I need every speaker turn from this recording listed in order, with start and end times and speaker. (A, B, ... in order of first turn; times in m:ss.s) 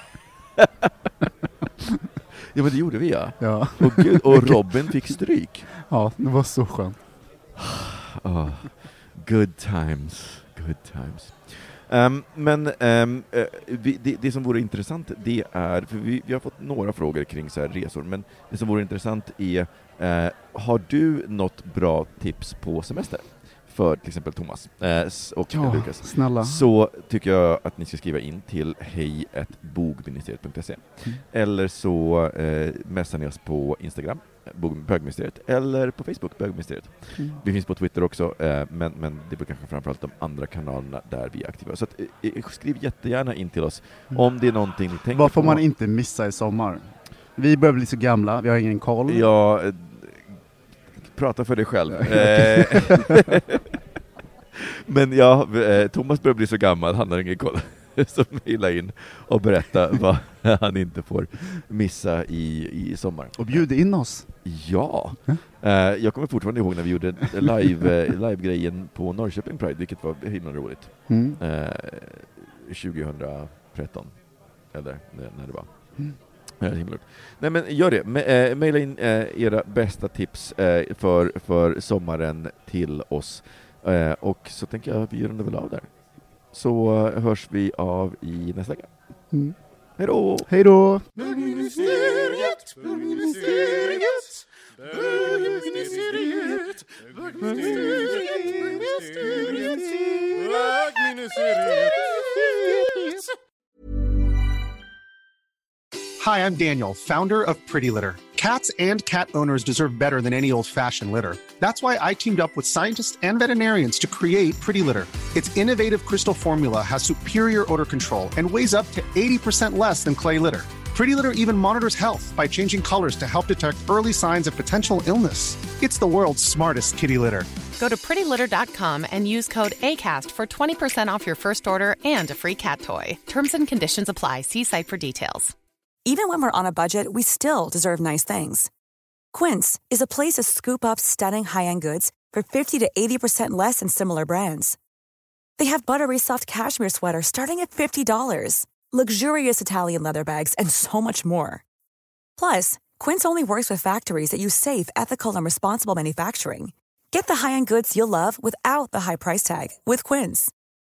0:00.6-0:00.9 A
0:02.5-0:05.7 A
0:03.4-0:05.1 B
0:05.9-0:07.0 B
0:07.6-0:45.6 A
0:25.5-0:26.6 B
0:37.2-0:37.4 B
0:45.1-0:49.3 B
0:49.1-0:50.3 A
0:51.0-0:53.6 A
0:52.3-0:52.7 B
0:54.6-1:03.6 A
1:03.4-1:04.4 B
1:04.4-1:14.2 A
1:11.1-1:11.4 B
1:14.7-1:16.0 A
1:16.6-1:25.9 A
1:26.5-1:28.9 A
1:30.0-1:30.5 A
1:30.5-1:31.1 B
1:33.0-1:33.5 B
1:35.5-1:36.5 B
1:46.2-2:07.6 C
2:07.8-2:15.6 D
2:16.0-2:18.7 E
2:19.3-2:24.8 E
2:25.6-2:31.6 E
2:32.4-2:40.5 E